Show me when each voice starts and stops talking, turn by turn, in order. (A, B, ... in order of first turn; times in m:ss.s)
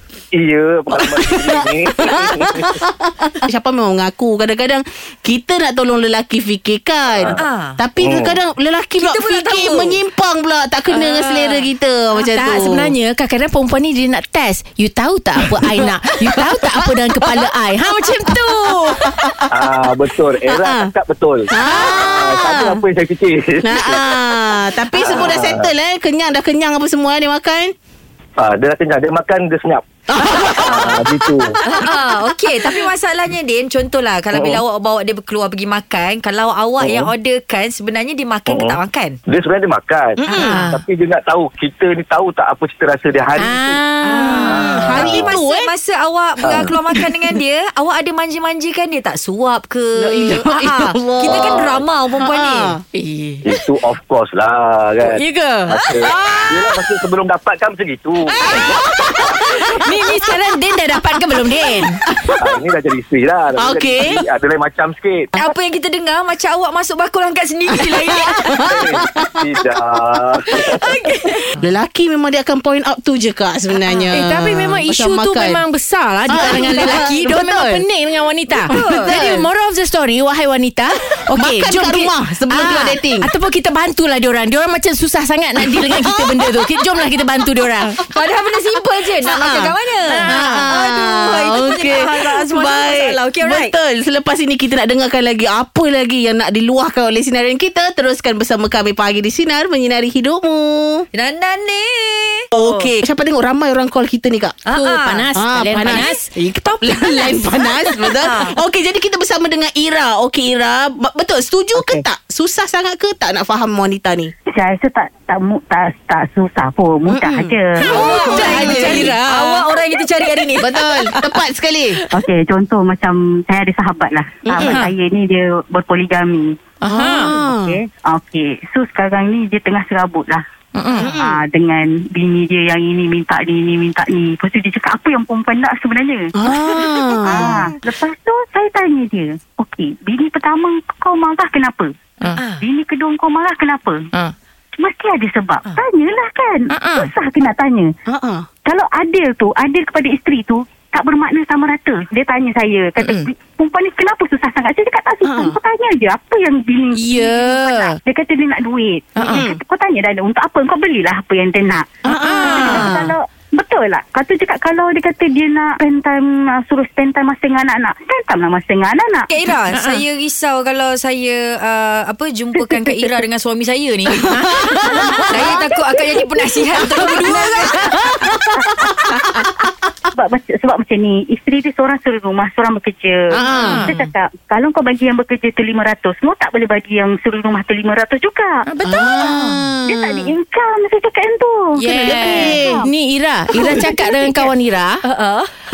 0:00.3-0:02.7 A
0:00.9-0:12.9 B
0:07.3-0:07.8 C
0:08.0-0:08.3 A
0:09.0-0:10.0 C
0:10.9-0:19.4 D
0:19.5-0:21.5 A
0:20.5-0:20.9 B
0:21.5-0:22.8 B
0:21.6-0:22.6 D
0:22.2-0:24.1 A
0:23.6-0:27.7 B
0:25.0-0:25.7 A
0:28.4-0:29.8 A
0:30.1-0:31.5 B
0:30.6-0:31.4 A
0:31.6-0:39.2 C
0:34.3-0:34.6 A
0:36.8-0:37.1 A
0:38.5-0:38.8 A
0:39.3-0:40.2 A
0:40.2-0:40.6 B
0:40.4-0:40.8 D
0:40.7-0:43.8 A
0:43.4-0:45.1 D
0:44.0-0:45.7 B
0:44.3-0:52.7 C
0:50.0-0:50.4 D
0:50.3-0:51.6 B
0:52.2-0:52.8 B
0:52.9-0:53.5 D
0:53.4-0:58.2 A
0:55.0-0:57.0 D
0:58.2-1:02.0 D
0:58.6-0:59.3 B
1:02.4-1:05.3 A
1:03.6-1:04.2 B
1:05.4-1:08.8 C
1:08.3-1:09.6 B
1:08.7-1:10.8 A
1:11.6-1:15.6 B
1:14.1-1:28.0 D
1:16.3-1:17.8 B
1:18.7-1:19.4 C
1:19.0-1:19.4 B
1:21.3-1:23.3 B
1:26.0-1:26.4 B
1:28.1-1:33.7 C
1:29.2-1:29.7 B
1:30.1-1:30.7 D
1:30.3-1:41.0 B
1:41.1-1:42.9 C
1:42.5-1:44.6 B
1:44.7-1:46.1 C
1:44.7-1:46.2 D
1:45.3-1:54.3 B
1:46.7-1:47.3 C
1:48.0-1:48.5 C
1:51.8-1:52.0 E
1:54.5-1:58.1 E
1:57.1-1:59.1 B
1:57.8-2:00.8 C
1:58.1-1:59.6 D
2:00.6-2:02.0 B
2:02.1-2:06.5 E
2:04.4-2:04.8 B
2:04.6-2:04.9 D
2:06.8-2:07.4 D
2:06.9-2:07.8 B
2:07.2-2:07.5 C
2:07.5-2:10.4 E
2:10.7-2:11.1 D
2:11.0-2:11.4 B
2:11.1-2:16.3 E
2:16.4-2:17.6 B
2:17.2-2:21.9 E
2:22.3-2:22.6 C
2:22.6-2:24.0 E
2:24.8-2:27.9 E
2:26.7-2:27.1 D
2:28.1-2:28.5 B
2:28.6-2:49.3 E
2:33.0-2:33.3 D
2:35.2-2:35.5 B
2:36.9-2:38.0 D
2:39.2-2:39.4 D
2:39.2-2:39.6 B
2:42.0-2:43.0 B
2:42.1-2:43.1 D
2:42.5-2:43.0 C
2:49.3-2:54.3 C
2:49.7-2:50.0 D
2:54.3-2:55.2 D
2:54.9-2:55.5 B
2:55.3-2:55.6 E
2:55.3-2:57.9 C
2:57.1-2:57.5 D
2:58.2-2:59.1 B
3:00.1-3:08.6 E
3:03.3-3:03.9 B
3:03.4-3:03.9 D
3:03.6-3:04.1 C
3:08.6-3:09.6 D
3:08.8-3:10.3 B
3:09.8-3:12.8 E
3:11.8-3:15.0 D
3:12.0-3:12.8 B
3:13.7-3:14.1 E
3:15.1-3:15.4 C